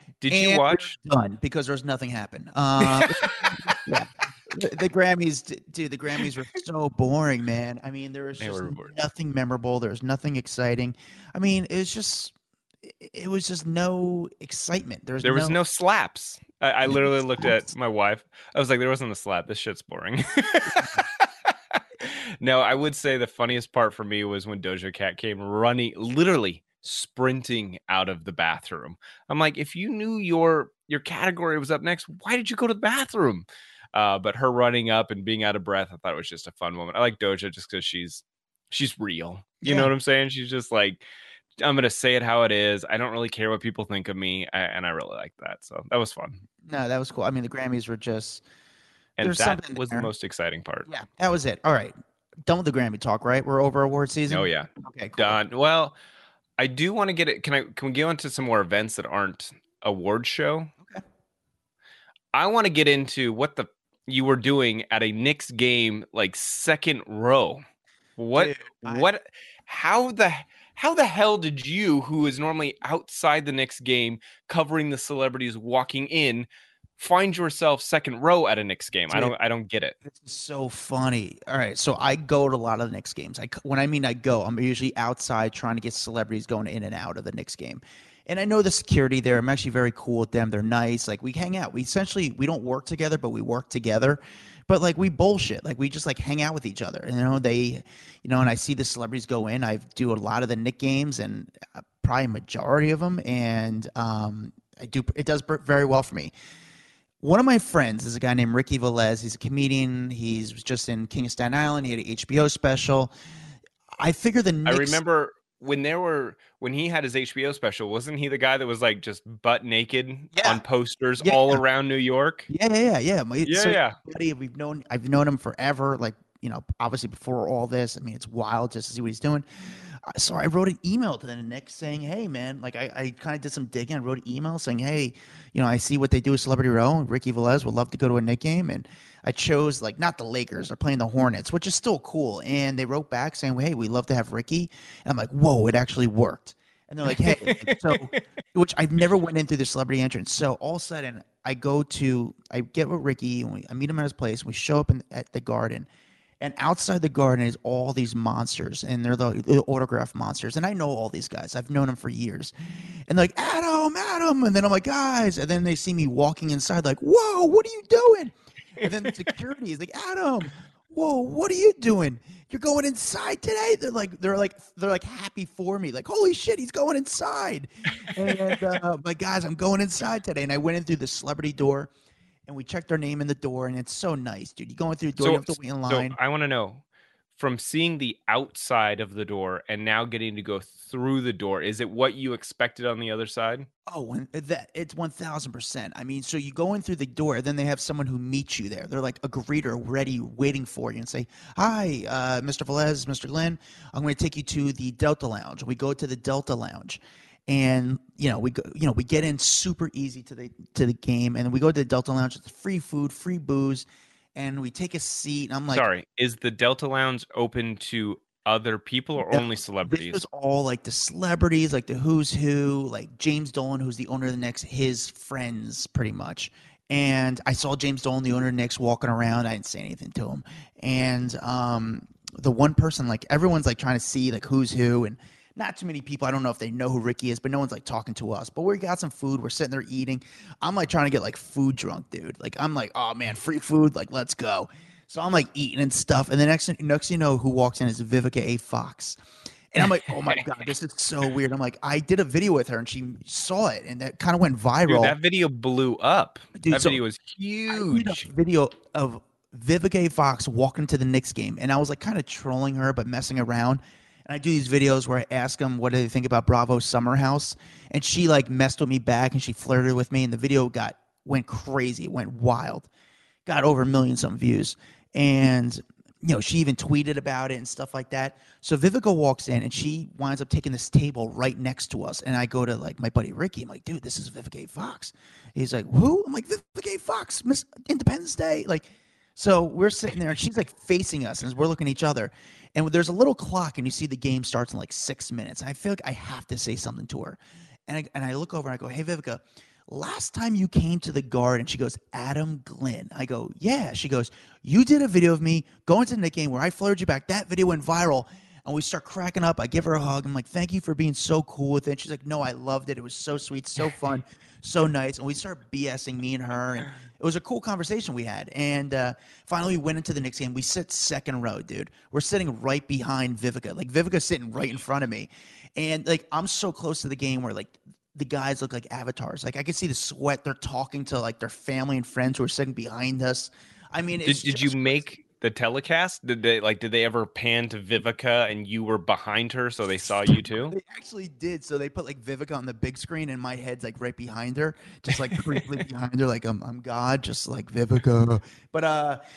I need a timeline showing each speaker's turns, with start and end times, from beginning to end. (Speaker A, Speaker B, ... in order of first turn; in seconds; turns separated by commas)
Speaker A: 0.2-0.9, Speaker B: 0.3-15.6, Speaker A: 2.8-3.8, Speaker A: 8.4-8.9, Speaker A: 15.2-41.0, Speaker B: 16.9-17.6, Speaker B: 20.7-21.0, Speaker B: 39.6-39.9, Speaker A: 41.6-46.4, Speaker B: 46.6-48.4, Speaker A: 49.2-50.9, Speaker B: 49.2-50.1, Speaker B: 50.9-55.4, Speaker A: 54.3-56.0, Speaker A: 56.6-60.7, Speaker A: 62.3-67.6, Speaker A: 68.2-80.0, Speaker B: 68.3-69.1, Speaker B: 80.0-106.3, Speaker B: 107.2-113.1, Speaker B: 114.0-115.0, Speaker A: 114.7-122.5, Speaker B: 120.3-120.6, Speaker B: 121.2-121.6, Speaker B: 122.5-155.9, Speaker A: 123.4-124.0, Speaker A: 147.1-148.2, Speaker B: 156.4-162.5, Speaker B: 163.1-181.9, Speaker A: 168.8-169.3, Speaker A: 178.0-178.6, Speaker B: 182.5-186.2, Speaker A: 185.2-186.8, Speaker A: 187.4-193.7, Speaker B: 193.9-215.9, Speaker A: 215.7-220.2, Speaker B: 219.2-249.2, Speaker B: 249.7-255.2, Speaker A: 249.8-250.4, Speaker A: 254.9-258.2, Speaker B: 256.6-257.0, Speaker B: 257.7-272.9, Speaker B: 273.5-335.1, Speaker A: 334.2-340.7, Speaker B: 340.2-349.2, Speaker A: 345.1-345.6